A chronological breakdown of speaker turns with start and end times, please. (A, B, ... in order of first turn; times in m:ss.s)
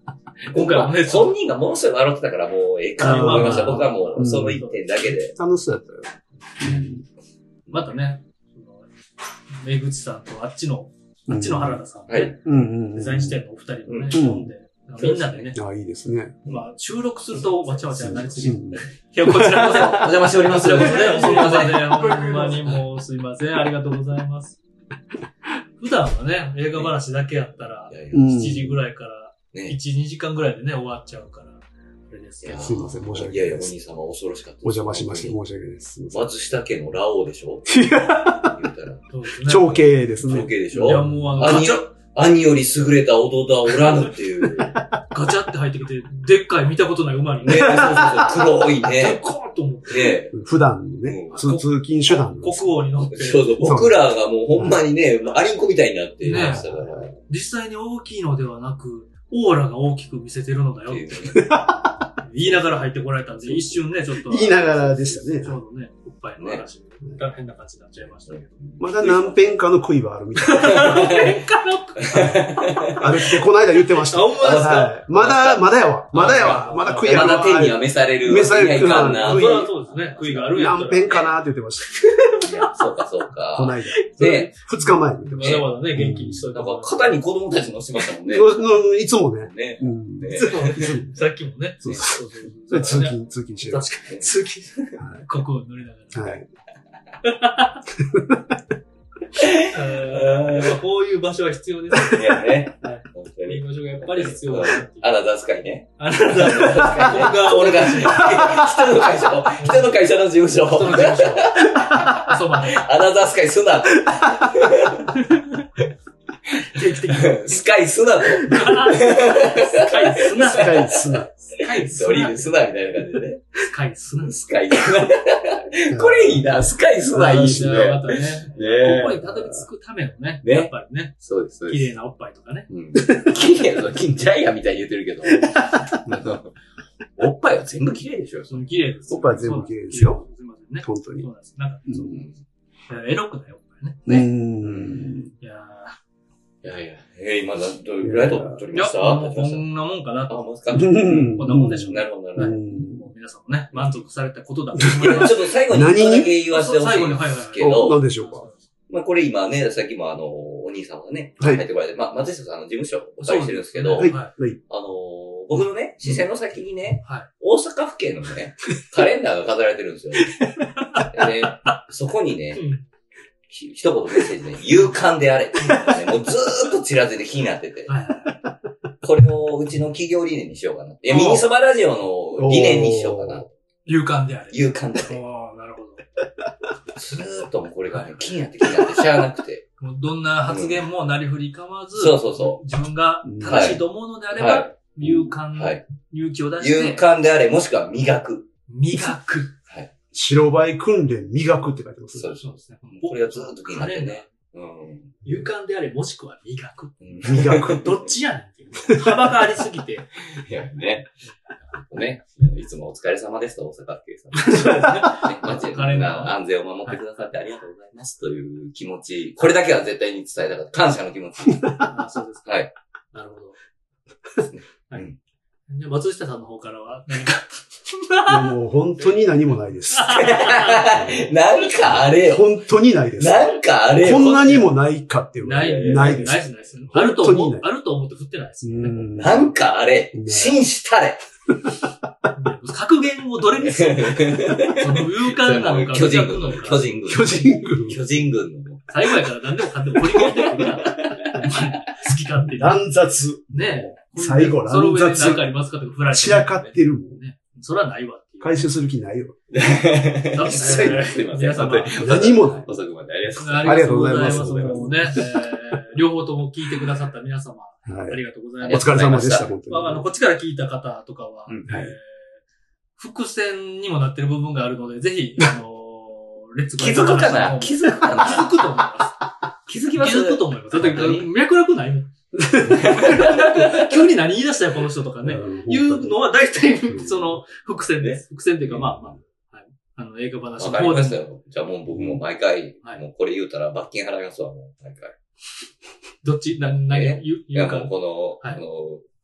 0:00.4-0:05.3 A
0:00.5-0:01.3 B
0:03.0-0:04.8 B
0:03.0-0:04.6 C
0:05.3-0:07.0 C
0:07.7-0:08.9 B
0:09.6-0:12.4 B
0:11.3-0:11.8 C
0:12.1-0:12.4 A
0:12.4-0:13.4 C
0:12.9-0:15.6 B
0:13.9-0:14.2 A
0:14.1-0:14.5 C
0:15.0-0:15.5 A
0:15.5-0:16.4 C
0:16.4-0:24.6 B
0:18.0-0:19.8 C
0:19.3-0:22.3 A
0:20.6-0:22.6 C
0:25.8-0:32.7 B
0:27.9-0:28.3 A
0:28.1-0:28.8 C
0:29.5-0:29.8 A
0:32.4-0:35.4 A
0:32.6-0:33.7 C
0:34.6-0:36.3 C
0:36.1-0:37.8 A
0:37.7-0:38.6 C
0:38.4-0:44.8 A
0:39.1-0:39.8 B
0:39.4-0:41.6 C
0:40.8-0:41.9 B
0:44.4-0:44.8 C
0:45.1-0:48.2 B
0:47.4-0:49.2 A
0:47.8-0:48.3 C
0:48.9-0:50.2 B
0:49.9-0:50.3 A
0:50.3-0:52.8 C
0:51.0-0:51.4 A
0:51.3-0:53.5 B
0:53.1-0:57.2 A
0:53.6-0:53.9 C
0:54.5-0:54.8 C
0:56.2-0:56.7 B
0:56.3-0:57.1 C
0:57.2-1:01.6 B
1:00.9-1:01.4 A
1:01.3-1:02.0 C
1:02.2-1:08.5 B
1:04.1-1:05.6 C
1:06.4-1:06.6 A
1:08.3-1:09.4 A
1:08.8-1:11.0 C
1:10.4-1:12.4 B
1:10.6-1:11.4 A
1:12.0-1:13.1 A
1:12.9-1:22.4 C
1:14.0-1:15.0 B
1:14.4-1:19.8 A
1:16.1-1:17.5 B
1:19.0-1:21.3 B
1:22.0-1:22.7 B
1:22.4-1:24.5 A
1:23.5-1:26.5 C
1:25.3-1:27.2 B
1:25.4-1:25.7 A
1:26.5-1:28.5 A
1:28.3-1:31.1 C
1:29.4-1:31.0 A
1:30.3-1:36.4 B
1:31.8-1:33.8 C
1:36.1-1:36.4 C
1:37.2-1:37.8 B
1:37.9-1:38.5 C
1:39.4-1:40.8 A
1:39.7-1:45.1 B
1:42.0-1:55.1 A
1:46.0-1:48.6 B
1:48.2-1:48.7 C
1:49.6-1:49.9 B
1:50.7-1:52.8 B
1:54.0-1:54.7 C
1:55.1-1:55.6 B
1:56.6-1:57.6 B
1:56.8-2:03.6 A
1:58.4-2:02.6 B
2:00.4-2:01.3 C
2:03.7-2:04.4 B
2:04.2-2:09.2 A
2:05.9-2:06.4 C
2:07.1-2:11.2 B
2:08.8-2:09.6 C
2:10.4-2:11.9 A
2:11.7-2:12.7 B
2:12.7-2:16.5 A
2:15.4-2:16.1 C
2:17.2-2:18.7 A
2:18.5-2:22.3 B
2:19.1-2:20.2 C
2:20.8-2:21.3 C
2:22.9-2:24.3 B
2:24.1-2:25.3 C
2:24.6-2:25.1 A
2:25.4-2:26.0 B
2:26.6-2:29.6 A
2:28.0-2:28.6 C
2:28.7-2:30.4 B
2:30.3-2:32.6 A
2:30.7-2:33.1 C
2:31.1-2:35.4 B
2:34.8-2:36.3 C
2:34.9-2:38.0 A
2:36.5-2:38.6 B
2:37.6-2:38.5 C
2:38.9-2:50.4 A
2:43.2-2:44.3 B
2:44.0-2:44.6 C
2:50.8-2:51.7 B
2:51.0-2:52.6 A
2:52.5-2:52.8 B
2:53.5-2:57.9 A
2:55.6-2:55.9 B
2:57.9-2:58.4 B
2:59.0-3:03.5 A
3:01.1-3:01.4 B
3:02.4-3:03.4 C
3:03.8-3:06.0 B
3:04.5-3:05.2 A
3:06.9-3:09.6 A
3:07.9-3:08.2 B
3:09.8-3:17.0 B
3:10.5-3:10.8 A
3:12.0-3:12.6 A
3:13.2-3:13.8 C
3:13.4-3:14.7 A
3:15.0-3:15.3 C
3:15.5-3:15.8 A
3:16.6-3:18.5 A
3:18.7-3:19.5 B
3:20.1-3:22.3 C
3:22.2-3:25.2 A
3:22.3-3:24.3 B
3:25.2-3:30.1 B
3:27.0-3:28.0 A
3:27.2-3:27.8 C
3:28.9-3:29.2 C
3:30.3-3:31.1 A
3:31.7-3:41.9 A
3:34.3-3:36.4 B
3:41.8-3:42.6 B
3:42.4-3:42.7 A
3:43.1-3:43.5 B
3:44.5-3:45.1 A
3:45.7-3:48.5 B
3:48.2-3:50.3 C
3:49.9-3:50.9 B
3:50.1-3:52.6 A
3:50.9-3:51.2 C
3:51.9-3:56.4 C
3:53.2-3:54.6 A
3:55.4-3:59.1 B
3:55.5-3:56.3 A
3:56.9-3:57.7 C
3:58.6-3:59.5 C
3:59.1-4:01.2 A
4:00.1-4:00.6 C
4:02.3-4:06.9 B
4:03.6-4:08.9 A
4:07.1-4:08.0 C
4:08.9-4:12.8 B
4:10.2-4:11.4 A
4:12.5-4:15.4 C
4:13.5-4:18.6 B
4:16.1-4:17.2 C
4:18.4-4:19.4 C
4:19.5-4:24.4 A
4:20.3-4:22.3 B
4:20.6-4:21.0 C
4:22.0-4:22.7 C
4:23.4-4:32.4 B
4:23.6-4:25.3 C
4:27.9-4:30.0 C
4:28.6-4:29.5 A
4:31.5-4:31.8 A
4:33.0-4:39.2 B
4:36.8-4:38.6 A
4:39.7-4:41.3 A
4:40.0-4:51.2 B
4:42.4-4:43.2 C
4:42.6-4:43.9 A
4:45.2-4:46.1 C
4:46.9-4:47.3 C
4:50.6-4:55.1 A
4:56.2-4:57.9 B
4:56.9-4:59.0 A